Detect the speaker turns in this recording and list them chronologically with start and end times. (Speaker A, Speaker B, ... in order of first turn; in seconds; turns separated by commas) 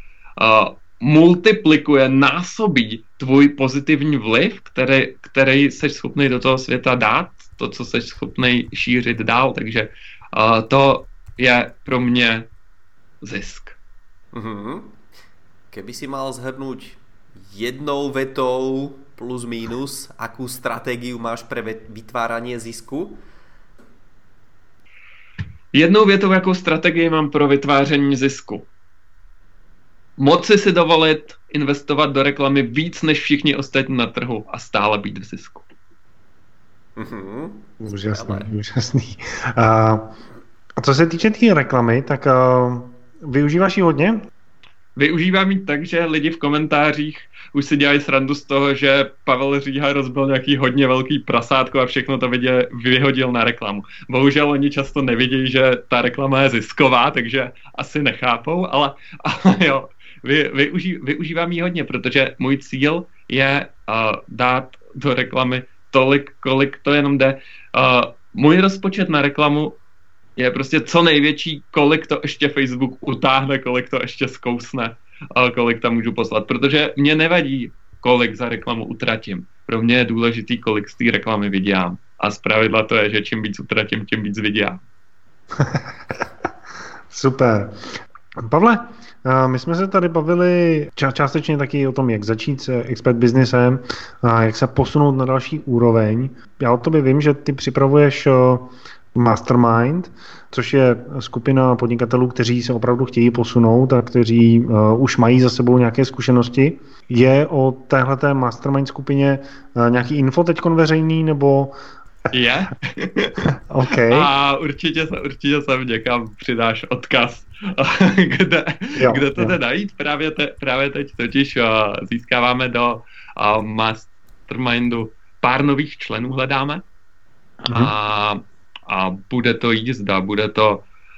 Speaker A: 0.4-12.5, Speaker A: 13.2-13.8, Speaker B: 14.3-14.9, Speaker B: 15.7-23.2, Speaker A: 25.7-28.7, Speaker A: 30.2-35.7, Speaker B: 37.0-38.5, Speaker C: 37.8-40.1, Speaker C: 40.8-44.2, Speaker A: 45.0-69.8, Speaker A: 70.4-84.8, Speaker C: 87.1-87.7, Speaker C: 88.4-111.7, Speaker A: 112.3-113.4, Speaker C: 113.7-114.3, Speaker A: 114.1-126.8, Speaker C: 119.0-119.6, Speaker A: 127.6-130.8, Speaker C: 127.7-127.9